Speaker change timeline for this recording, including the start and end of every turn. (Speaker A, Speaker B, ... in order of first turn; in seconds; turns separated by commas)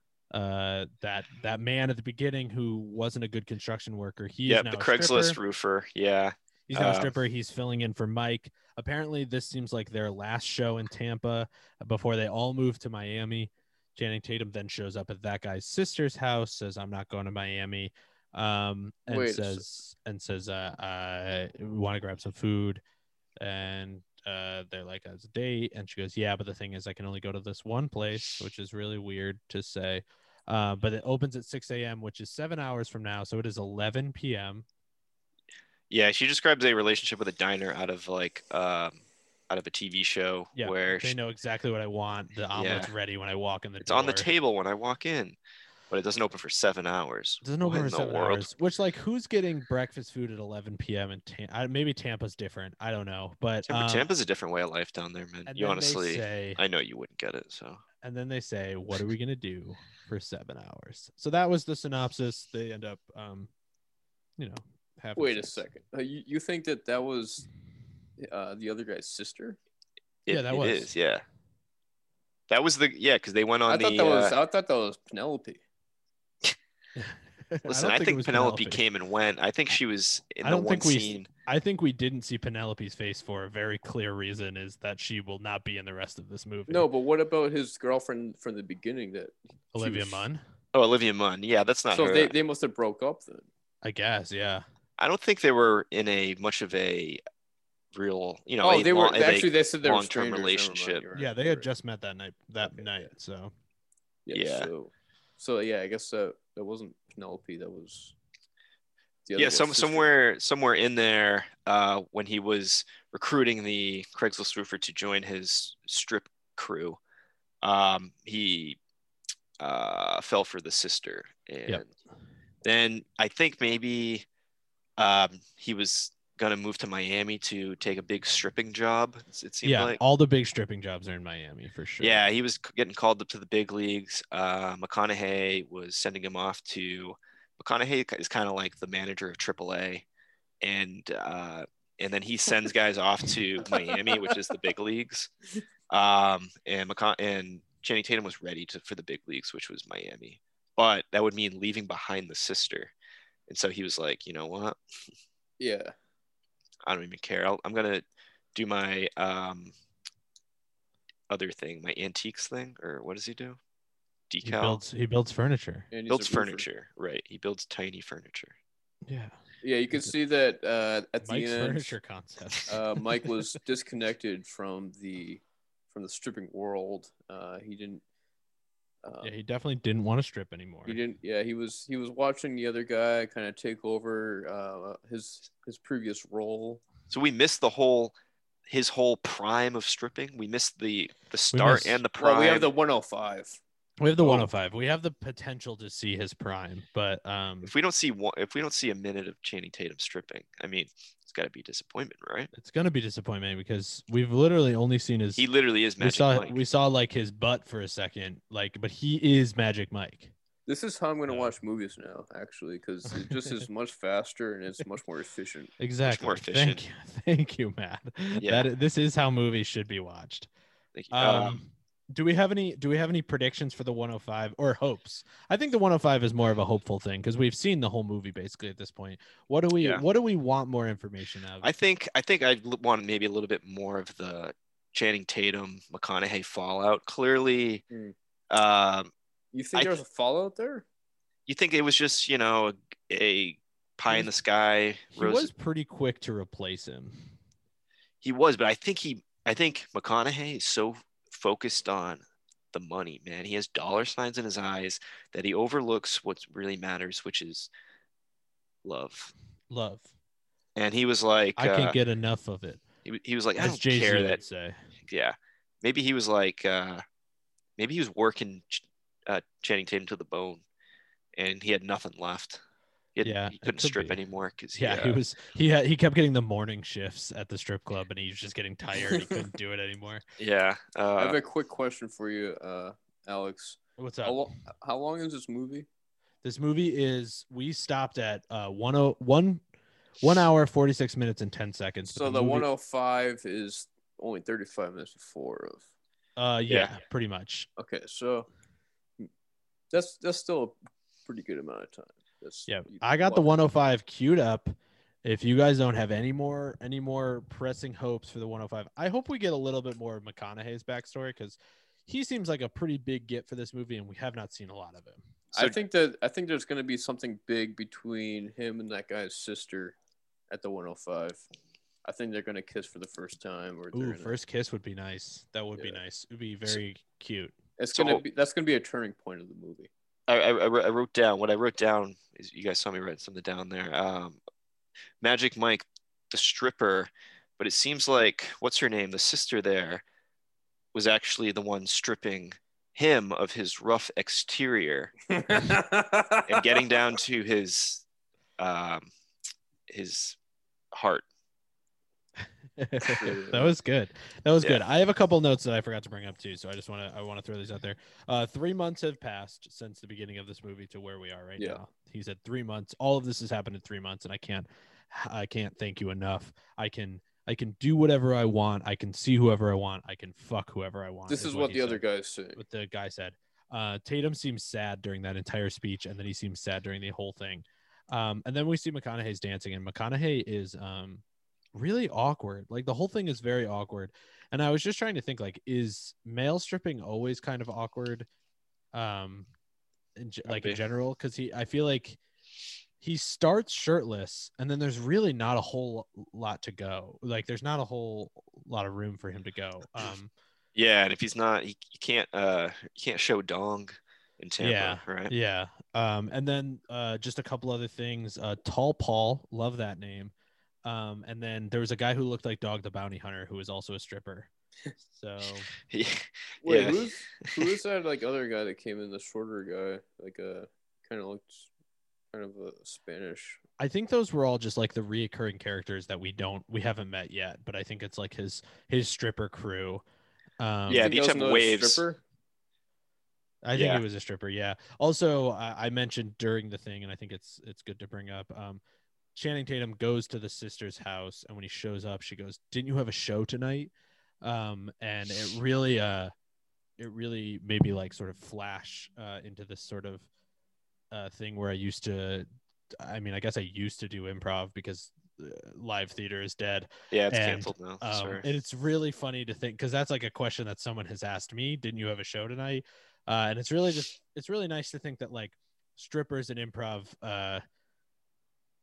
Speaker A: 0.3-5.4, Speaker B: 4.5-7.1, Speaker A: 6.7-22.8, Speaker C: 19.1-19.6, Speaker A: 23.4-34.6, Speaker B: 35.9-41.1, Speaker A: 40.5-44.2, Speaker B: 42.5-42.9, Speaker B: 43.8-45.4, Speaker B: 45.9-48.5, Speaker A: 47.4-54.1, Speaker B: 53.7-57.8, Speaker A: 55.5-56.6, Speaker A: 58.0-63.5, Speaker A: 64.4-65.6, Speaker C: 65.2-67.5, Speaker C: 68.2-69.6, Speaker B: 70.2-71.2, Speaker A: 70.3-70.9, Speaker B: 72.5-74.3, Speaker C: 73.7-75.6, Speaker A: 77.0-78.8, Speaker B: 77.7-81.3, Speaker A: 80.4-86.9, Speaker C: 86.7-90.2, Speaker A: 89.7-90.4, Speaker B: 90.7-92.3, Speaker C: 91.9-93.5, Speaker A: 93.8-94.6, Speaker B: 95.0-97.2, Speaker B: 97.9-101.0, Speaker C: 98.6-101.7, Speaker A: 101.1-103.5, Speaker C: 102.6-103.1, Speaker C: 104.2-108.1, Speaker B: 104.3-104.7, Speaker C: 109.2-110.1, Speaker B: 109.3-117.0, Speaker B: 117.6-118.8, Speaker B: 119.6-121.9, Speaker B: 122.6-124.2, Speaker B: 125.0-130.0, Speaker A: 129.6-132.2, Speaker B: 132.0-140.0, Speaker B: 140.6-145.3, Speaker C: 143.7-144.2, Speaker B: 145.9-152.9, Speaker B: 153.5-154.8, Speaker C: 155.6-155.9, Speaker B: 156.8-159.7, Speaker B: 161.3-163.6, Speaker B: 164.3-164.8, Speaker A: 164.4-165.9, Speaker C: 165.9-166.7, Speaker B: 166.1-168.6, Speaker A: 169.1-169.4, Speaker C: 169.6-171.9, Speaker A: 171.2-173.2, Speaker C: 172.7-178.0, Speaker C: 179.0-179.3, Speaker A: 179.2-181.0, Speaker C: 180.8-186.8, Speaker B: 187.1-188.1, Speaker B: 188.7-192.7, Speaker A: 191.5-192.0, Speaker C: 192.2-193.6, Speaker A: 194.0-197.7, Speaker B: 197.6-202.5, Speaker A: 202.5-205.4, Speaker B: 205.4-206.6, Speaker A: 206.0-210.3, Speaker C: 210.7-215.7, Speaker A: 211.3-211.5, Speaker A: 215.8-220.5, Speaker B: 216.0-216.8, Speaker B: 218.4-218.7, Speaker B: 220.9-221.6, Speaker A: 221.1-231.7, Speaker B: 231.6-237.8, Speaker C: 237.9-238.1, Speaker B: 238.5-239.1, Speaker C: 239.5-240.8, Speaker B: 239.7-240.0, Speaker B: 241.5-245.5, Speaker A: 245.1-247.3, Speaker B: 248.2-257.7, Speaker B: 258.8-259.3, Speaker A: 259.7-260.1, Speaker B: 260.8-262.0, Speaker A: 261.6-262.8, Speaker B: 263.0-264.4, Speaker A: 263.6-264.8, Speaker B: 265.1-267.0, Speaker B: 267.8-270.6, Speaker B: 271.4-272.6, Speaker B: 273.1-275.2, Speaker A: 273.2-274.2, Speaker A: 274.8-280.2, Speaker B: 280.4-281.4, Speaker C: 281.2-285.9, Speaker A: 284.0-284.4, Speaker A: 286.4-289.6, Speaker A: 290.2-292.7, Speaker C: 292.1-295.9, Speaker A: 296.4-297.7, Speaker C: 297.8-298.5, Speaker C: 299.9-303.5, Speaker A: 302.7-315.8, Speaker C: 315.5-320.0, Speaker C: 320.5-321.4, Speaker C: 322.0-324.3, Speaker A: 323.9-327.6, Speaker C: 327.8-329.9, Speaker B: 327.9-328.2, Speaker B: 330.3-334.4, Speaker B: 335.2-340.0, Speaker B: 340.9-345.1, Speaker C: 345.3-346.9, Speaker B: 346.4-348.0, Speaker B: 348.6-349.1, Speaker B: 349.9-350.4, Speaker B: 350.9-351.2, Speaker A: 352.8-372.0, Speaker C: 353.2-353.8, Speaker C: 371.3-372.6, Speaker A: 372.5-381.2, Speaker A: 381.7-388.3, Speaker A: 388.9-389.5, Speaker A: 390.2-392.2, Speaker C: 390.5-390.8, Speaker A: 393.0-400.3, Speaker B: 400.7-405.3, Speaker A: 404.6-410.3, Speaker A: 410.8-414.5, Speaker A: 415.1-415.7, Speaker B: 415.9-417.7, Speaker C: 416.6-421.7, Speaker C: 422.3-423.6, Speaker A: 423.8-430.0, Speaker A: 430.6-431.1, Speaker B: 430.9-432.0, Speaker C: 430.9-432.2, Speaker A: 433.6-438.8, Speaker B: 433.7-434.0, Speaker A: 439.3-443.9, Speaker A: 444.4-446.3, Speaker A: 447.0-450.3, Speaker A: 451.1-452.5, Speaker A: 453.0-467.6, Speaker B: 457.1-458.4